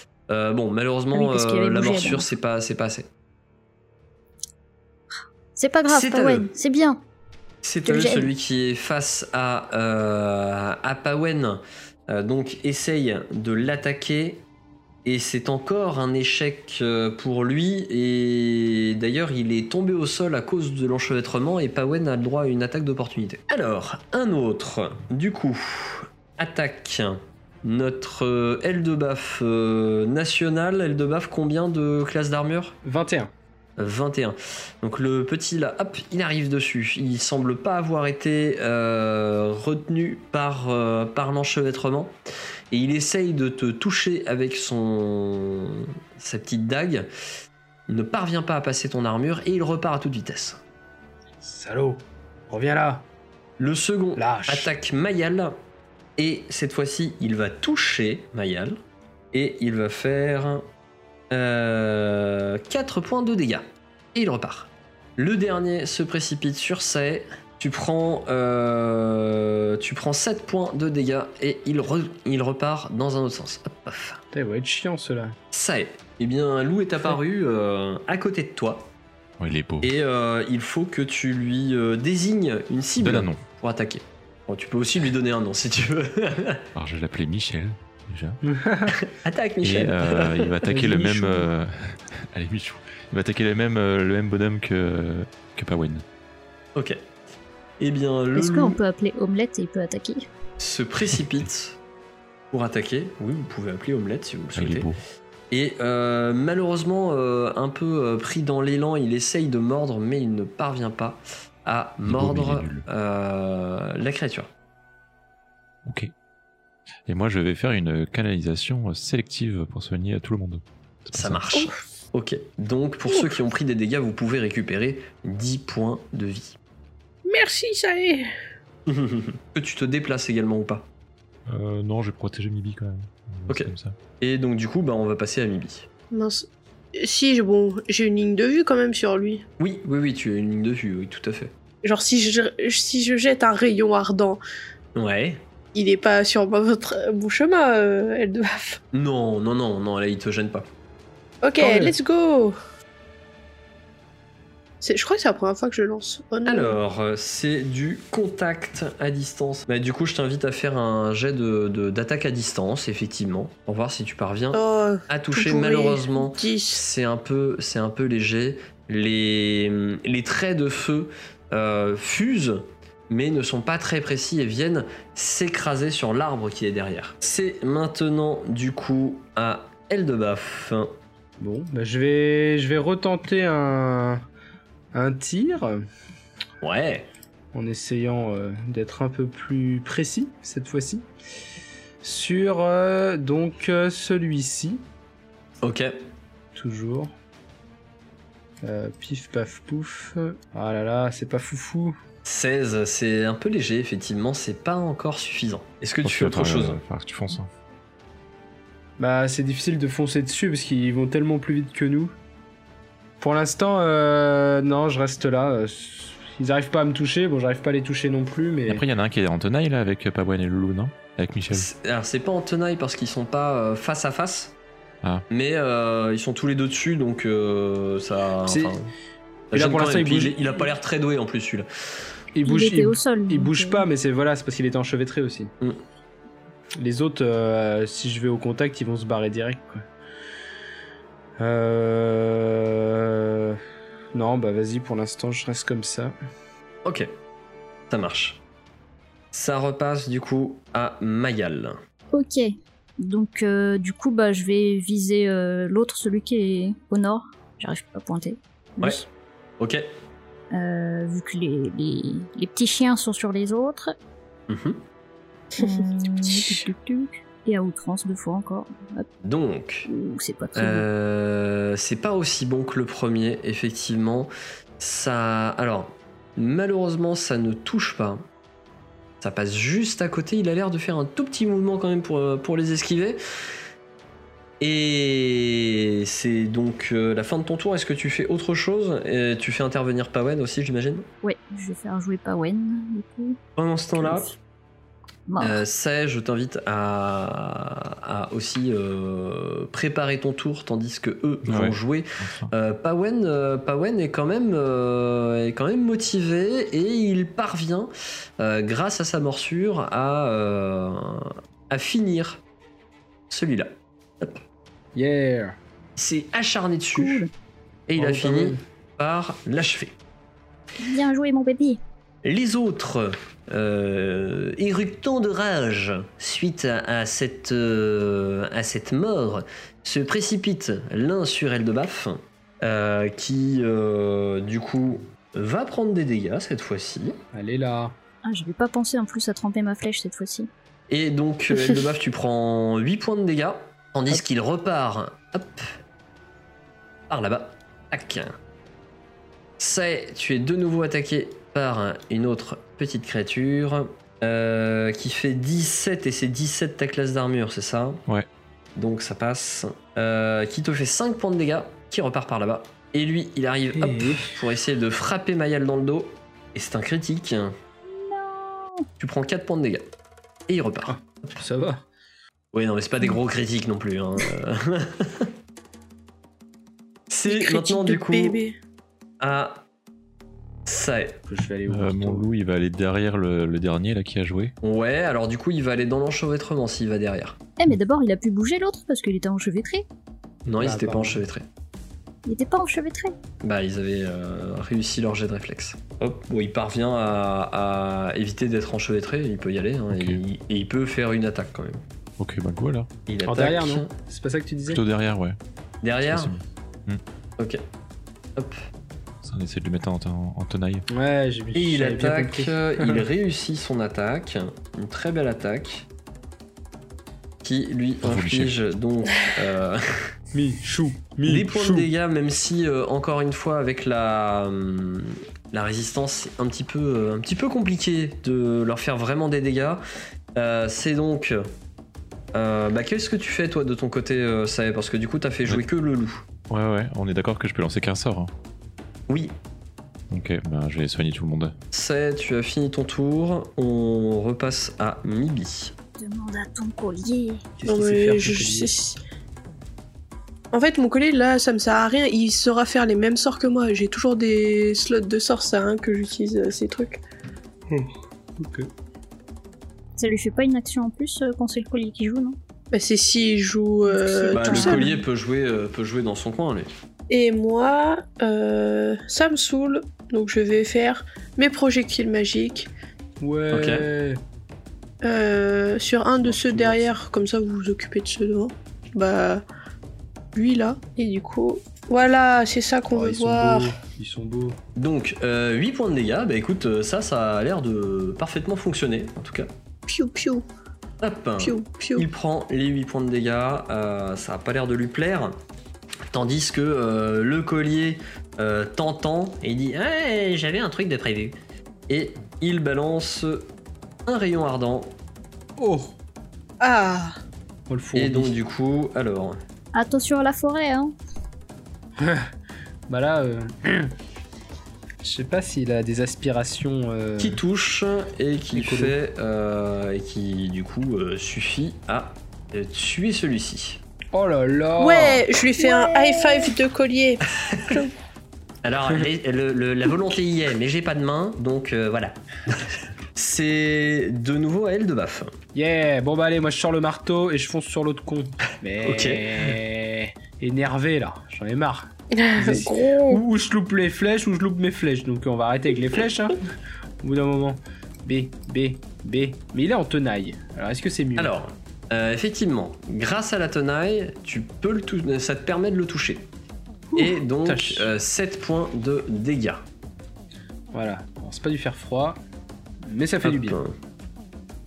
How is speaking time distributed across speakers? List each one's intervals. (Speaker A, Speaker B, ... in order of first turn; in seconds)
Speaker A: 0.3-3.1, 5.9-6.5, 7.6-14.4, 15.0-32.8, 33.8-42.1, 42.7-47.1, 47.9-50.6, 53.6-55.5, 56.2-58.8, 59.3-60.6, 61.3-74.2, 75.5-78.9, 79.8-86.7, 89.0-90.5, 96.7-97.0, 97.8-98.8, 100.6-101.8, 102.5-104.9, 105.5-114.5, 121.1-126.6, 128.9-130.9, 133.5-135.9, 139.6-141.5, 144.9-145.4, 148.9-150.7, 156.4-180.9, 186.6-187.1, 195.6-195.9, 202.2-206.8, 221.5-224.5, 225.3-228.9, 229.5-231.7, 246.8-247.1, 247.9-248.4, 249.3-251.8, 259.6-259.8, 264.5-264.8, 269.2-269.9, 270.5-278.2, 279.2-283.2, 284.6-291.1, 293.6-294.3, 295.4-312.4, 313.3-314.4, 316.0-317.2, 317.9-319.9, 322.2-337.2, 340.9-345.7, 347.1-348.4, 349.6-358.0, 358.8-367.5, 369.0-369.9, 370.5-370.9, 372.5-375.3, 377.1-378.4, 379.2-379.6, 380.6-381.2, 384.6-387.4, 390.4-391.4, 393.4-401.8, 403.1-403.9, 405.8-406.3, 408.4-408.6, 411.5-415.9, 417.4-420.1, 421.2-429.8, 430.4-431.4, 432.3-436.2, 439.1-439.4, 441.7-445.7, 464.3-466.7, 473.5-473.8, 484.8-489.5, 491.0-495.4, 496.1-501.4, 501.9-503.5, 504.1-504.9, 507.9-509.4, 517.2-523.8, 527.4-527.7, 528.6-532.6, 533.1-535.3, 538.8-539.6, 551.1-556.3, 557.0-559.6, 563.2-563.7
Speaker B: 1.1-2.3, 5.5-7.0, 7.8-8.3, 98.3-100.3, 232.4-233.8, 252.1-259.1, 260.5-263.9, 265.6-269.1, 269.9-270.9, 291.2-293.4, 293.9-294.3, 295.3-295.6, 316.9-317.3, 320.8-321.8, 338.2-340.5, 367.9-368.9, 387.6-389.8, 392.2-393.1, 446.0-447.4, 460.0-462.4, 463.8-465.0, 509.7-510.9, 525.6-526.4
Speaker C: 32.8-33.3, 51.4-53.1, 54.1-54.7, 74.3-75.3, 88.4-88.9, 90.7-91.5, 151.6-151.9, 181.4-184.2, 184.9-185.8, 187.5-191.1, 192.0-194.8, 196.5-197.1, 198.6-201.9, 209.0-212.1, 213.2-218.8, 228.4-228.8, 229.5-230.6, 232.3-235.5, 236.8-239.8, 241.4-243.6, 244.1-246.1, 314.9-315.6, 318.0-318.6, 337.3-337.9, 363.7-364.4, 370.9-371.8, 381.3-382.3, 390.6-391.2, 403.2-404.8, 410.9-413.1, 420.3-421.9, 447.6-448.7, 457.7-458.7, 473.2-474.2, 476.2-476.9, 482.9-484.6, 505.6-505.9, 507.7-508.4, 512.0-512.3, 512.9-513.9, 515.0-517.4, 518.5-518.9, 524.1-525.2, 535.5-546.4, 547.0-551.3, 556.9-557.9, 560.7-562.2, 562.8-563.6
Speaker D: 79.4-79.9, 83.0-83.4, 86.7-88.4, 89.6-96.0, 104.5-105.0, 112.0-112.8, 115.8-116.1, 117.0-121.5, 131.5-133.9, 206.0-207.5, 218.7-221.7, 301.4-302.5, 381.7-384.5, 399.9-400.2, 402.2-402.9, 404.7-405.4, 406.1-407.0, 409.2-410.9, 418.0-418.6, 436.5-438.3, 440.1-441.5
Speaker E: 127.2-128.3, 136.1-139.4, 141.8-144.4, 145.7-148.8, 151.4-152.6, 154.8-156.8, 164.5-166.8, 265.6-266.6, 377.3-378.5, 447.6-449.0, 450.5-457.0, 462.7-464.9, 467.1-472.7, 475.0-479.4, 480.3-483.7, 489.9-490.4, 491.4-492.1, 506.6-507.1, 524.8-527.9, 542.1-543.2